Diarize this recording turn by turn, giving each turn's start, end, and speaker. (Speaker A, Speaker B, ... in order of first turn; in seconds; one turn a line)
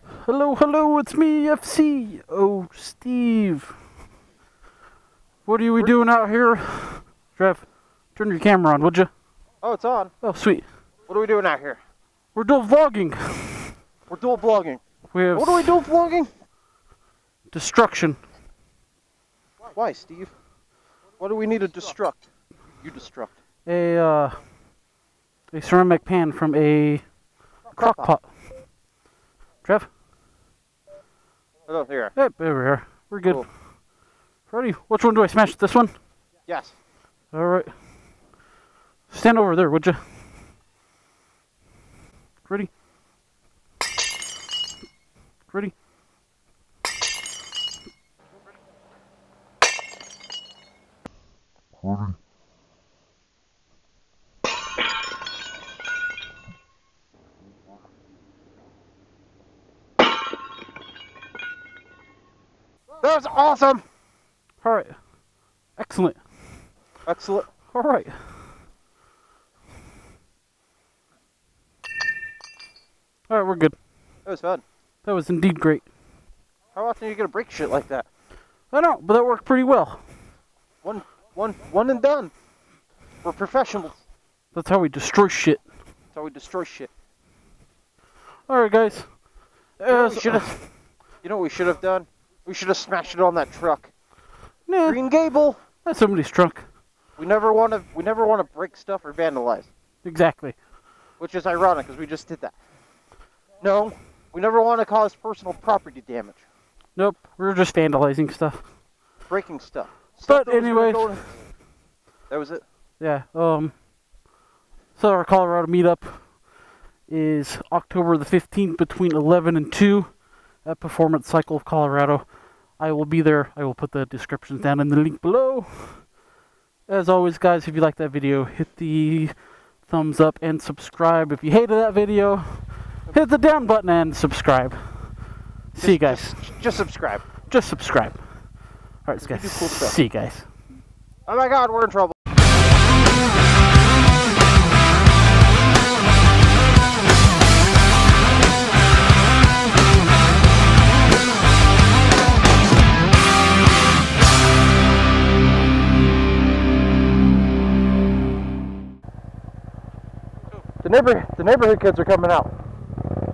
Speaker A: 0.2-3.8
Speaker A: 5.5-9.1
Speaker B: 9.6-10.1
Speaker A: 10.2-10.7
Speaker B: 11.1-11.8
Speaker A: 12.3-13.8
Speaker B: 14.1-14.8
Speaker A: 15.1-15.8
Speaker B: 15.3-16.3
Speaker A: 17.5-18.2
Speaker B: 19.7-20.3
Speaker B: 21.2-22.2
Speaker B: 22.8-23.3
Speaker A: 23.6-24.4
Speaker A: 25.5-27.1
Speaker B: 27.7-28.1
Speaker A: 27.7-28.3
Speaker A: 29.6-29.9
Speaker B: 31.7-32.1
Speaker A: 32.2-33.6
Speaker A: 34.5-35.9
Speaker B: 36.5-36.8
Speaker A: 37.3-37.8
Speaker A: 39.1-40.0
Speaker A: 42.4-42.7
Speaker A: 45.5-45.8
Speaker B: 63.0-63.8
Speaker A: 64.6-65.0
Speaker A: 65.8-66.2
Speaker B: 67.0-67.5
Speaker A: 67.7-68.4
Speaker A: 73.3-73.8
Speaker B: 74.2-74.6
Speaker A: 75.0-75.9
Speaker B: 76.7-78.1
Speaker A: 78.7-80.0
Speaker B: 80.8-82.3
Speaker B: 83.2-84.0
Speaker A: 84.5-85.6
Speaker B: 86.1-86.9
Speaker A: 88.5-89.2
Speaker A: 89.8-90.6
Speaker B: 89.9-90.6
Speaker B: 91.2-93.9
Speaker A: 94.7-95.0
Speaker B: 94.8-95.6
Speaker A: 95.8-96.7
Speaker B: 97.2-99.7
Speaker A: 100.0-100.5
Speaker B: 101.2-102.5
Speaker B: 103.6-106.4
Speaker A: 107.0-108.6
Speaker B: 109.3-111.3
Speaker A: 110.2-111.2
Speaker B: 112.3-112.6
Speaker A: 113.0-113.8
Speaker A: 115.0-116.5
Speaker A: 117.0-126.1
Speaker A: 126.9-136.5
Speaker B: 135.8-137.2
Speaker A: 137.5-140.5
Speaker B: 139.2-140.0
Speaker B: 141.3-142.2
Speaker B: 160.8-162.5